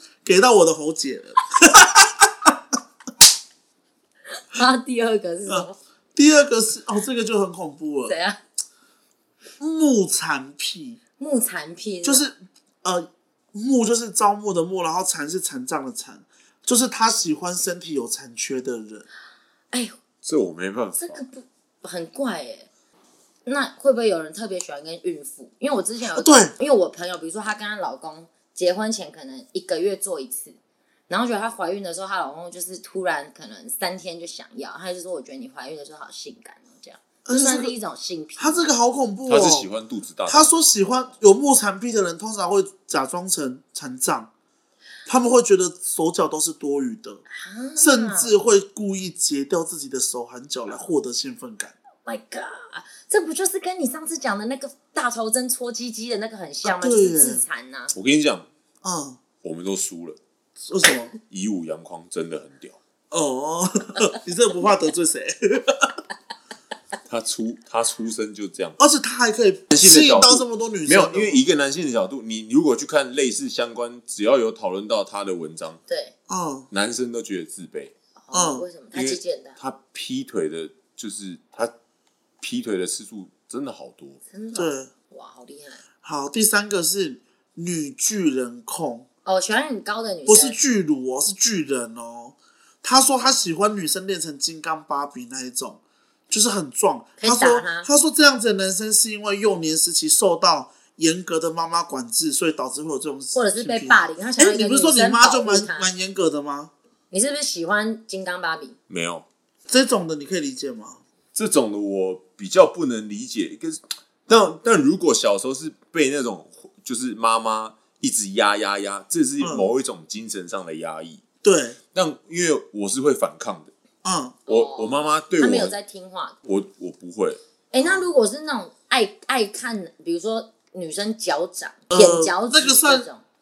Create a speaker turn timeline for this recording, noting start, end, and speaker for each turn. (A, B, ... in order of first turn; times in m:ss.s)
0:00.2-0:02.6 A
0:04.4-0:05.8 B
0:05.5-0:08.1 A
0:08.1-0:08.4 B
0:09.6-0:11.0 A
0:11.2-0:12.2 B
0:12.0-0:19.0 A
0:20.2-0:21.2 C
0:21.0-0:22.7 B
0:23.4-0:30.6 B
0:26.1-0:26.5 A
0:31.1-0:38.6 B
0:37.2-0:37.7 A
0:38.4-0:39.7 A
0:39.3-0:40.5 C
0:40.3-0:44.3 A
0:45.0-0:47.2 A
0:47.3-0:48.3 B
0:47.8-0:51.7 A
0:52.0-0:57.9 B
0:56.6-0:57.4 A
0:57.9-0:58.5 C
0:58.8-0:59.2 A
0:59.4-1:00.2 C
1:00.6-1:01.1 A
1:01.3-1:02.8 C
1:03.1-1:05.9 A
1:07.1-1:08.8 C
1:08.8-1:11.4 A
1:09.7-1:15.8 C
1:15.9-1:16.1 B
1:16.3-1:16.7 A
1:16.7-1:17.9 C
1:18.2-1:19.6 B
1:18.3-1:18.6 A
1:18.9-1:21.7 C
1:22.4-1:24.2 C
1:24.3-1:25.8 B
1:24.5-1:24.9 A
1:26.0-1:29.0 A
1:29.2-1:30.6 B
1:30.3-1:46.7 A
1:37.2-1:37.9 B
1:43.3-1:45.9 B
1:47.1-1:48.8 B
1:48.9-1:49.2 C
1:49.7-1:51.0 A
1:51.3-2:01.2 C
1:59.4-1:59.7 A
2:01.4-2:01.8 A
2:01.9-2:03.7 C
2:04.0-2:04.4 A
2:04.5-2:05.7 C
2:04.5-2:06.4 B
2:06.4-2:07.4 C
2:07.7-2:13.2 B
2:07.8-2:08.1 A
2:11.9-2:13.1 A